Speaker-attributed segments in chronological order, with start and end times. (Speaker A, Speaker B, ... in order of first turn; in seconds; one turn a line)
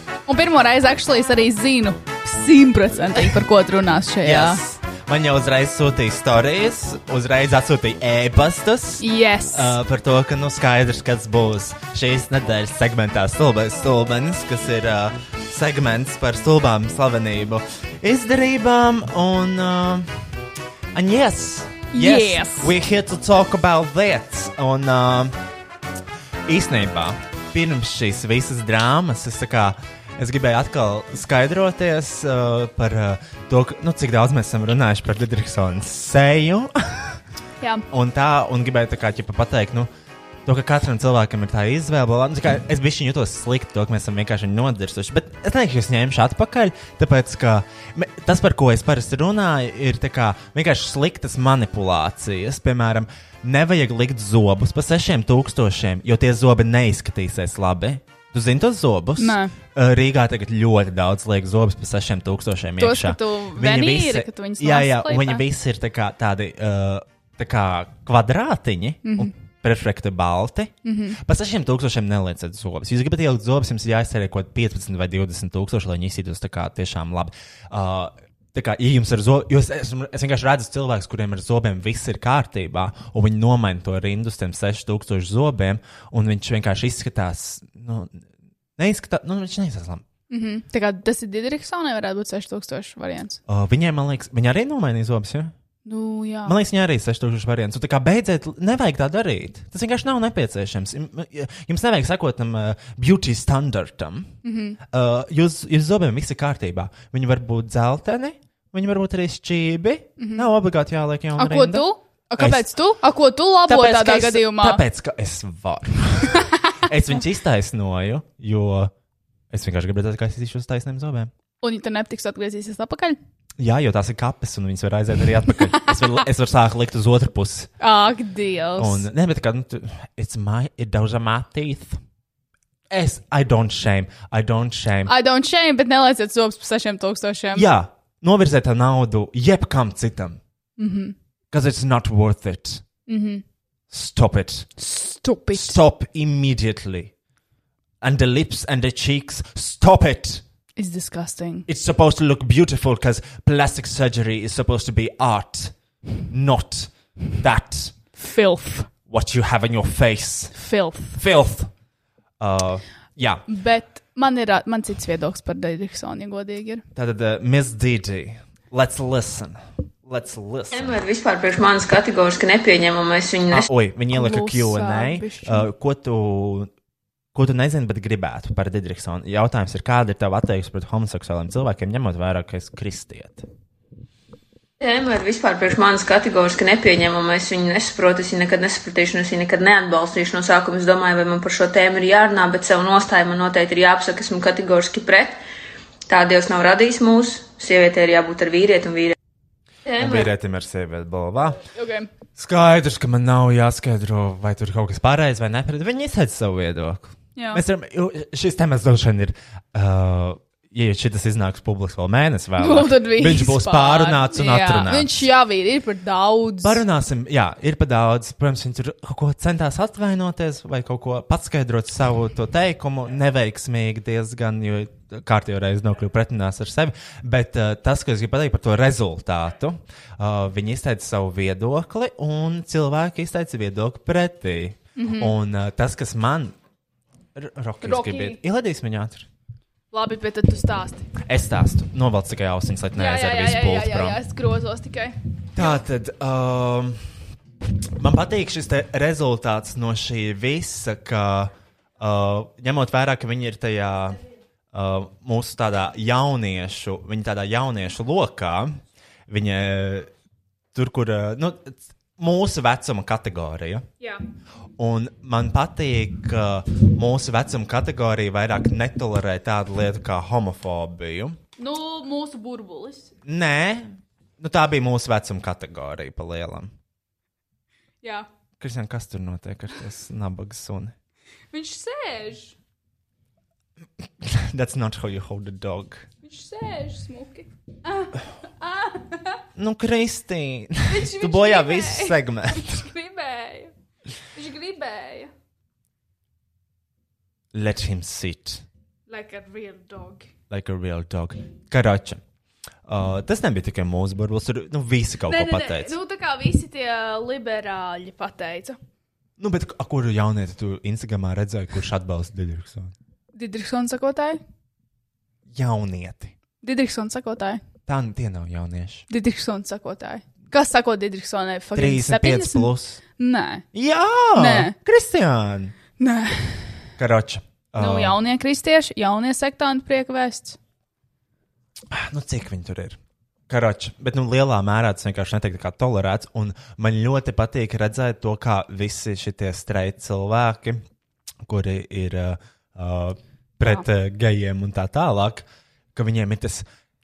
Speaker A: 0.3-4.6
Speaker B: 4.2-20.2
Speaker A: 9.0-9.8
Speaker B: 20.9-25.4
Speaker A: 21.9-22.7
Speaker B: 26.5-37.2
Speaker B: 37.9-39.9
Speaker B: 40.5-88.2
Speaker A: 59.2-59.5
Speaker A: 62.8-65.5
Speaker A: 69.0-69.3
Speaker A: 70.8-71.2
Speaker B: 88.8-90.0
Speaker A: 90.3-93.4
Speaker B: 93.5-95.5
Speaker A: 95.8-96.6
Speaker B: 96.5-104.3
Speaker A: 104.4-104.8
Speaker B: 104.8-111.9
Speaker A: 110.2-110.5
Speaker A: 111.4-114.8
Speaker B: 112.4-112.7
Speaker B: 113.7-118.9
Speaker A: 116.4-116.6
Speaker B: 119.5-121.3
Speaker A: 121.6-123.2
Speaker B: 123.6-127.7
Speaker A: 125.7-126.0
Speaker A: 127.8-129.1
Speaker B: 128.8-132.0
Speaker B: 132.9-135.1
Speaker A: 135.1-137.7
Speaker B: 137.5-140.4
Speaker A: 140.8-141.1
Speaker B: 141.5-142.8
Speaker A: 143.1-143.4
Speaker B: 143.9-144.7
Speaker A: 144.8-145.8
Speaker B: 145.5-147.1
Speaker B: 148.0-150.4
Speaker A: 150.8-151.7
Speaker B: 151.7-155.7
Speaker B: 156.3-157.9
Speaker A: 158.2-158.9
Speaker B: 159.1-160.6
Speaker A: 160.6-161.2
Speaker B: 161.1-161.7
Speaker B: 162.4-163.4
Speaker A: 163.5-166.8
Speaker B: 166.9-170.9
Speaker C: 170.7-173.7
Speaker B: 173.5-176.7
Speaker A: 174.1-175.7
Speaker B: 177.3-183.4
Speaker C: 184.8-195.4
Speaker C: 196.1-199.2
Speaker C: 199.9-200.3
Speaker B: 200.0-201.6
Speaker A: 201.7-202.1
Speaker B: 202.4-215.2
Speaker A: 207.4-207.6
Speaker A: 212.6-216.8
Speaker B: 216.6-236.6
Speaker A: 235.0-235.3
Speaker B: 237.3-239.3
Speaker A: 237.8-238.4
Speaker A: 239.9-241.1
Speaker B: 241.2-244.2
Speaker A: 242.9-245.8
Speaker B: 245.5-247.0
Speaker B: 248.0-254.2
Speaker B: 254.7-260.1
Speaker B: 260.7-263.9
Speaker B: 264.8-271.4
Speaker A: 271.6-273.1
Speaker B: 273.2-276.7
Speaker A: 278.0-278.3
Speaker B: 278.6-280.9
Speaker A: 281.5-282.6
Speaker B: 284.2-286.1
Speaker A: 286.2-289.4
Speaker B: 289.6-292.9
Speaker A: 290.9-293.7
Speaker A: 294.3-295.3
Speaker B: 297.5-298.6
Speaker A: 299.1-300.3
Speaker B: 300.5-302.2
Speaker B: 302.9-305.9
Speaker A: 305.3-308.8
Speaker B: 309.4-312.9
Speaker A: 313.4-314.4
Speaker B: 315.5-316.3
Speaker A: 316.6-317.6
Speaker B: 317.9-319.1
Speaker A: 319.1-323.7
Speaker B: 321.7-323.0
Speaker B: 323.7-325.7
Speaker A: 324.3-324.8
Speaker A: 326.0-326.7
Speaker B: 327.0-328.2
Speaker A: 327.8-330.6
Speaker B: 331.9-333.0
Speaker B: 333.5-340.8
Speaker B: 341.4-346.6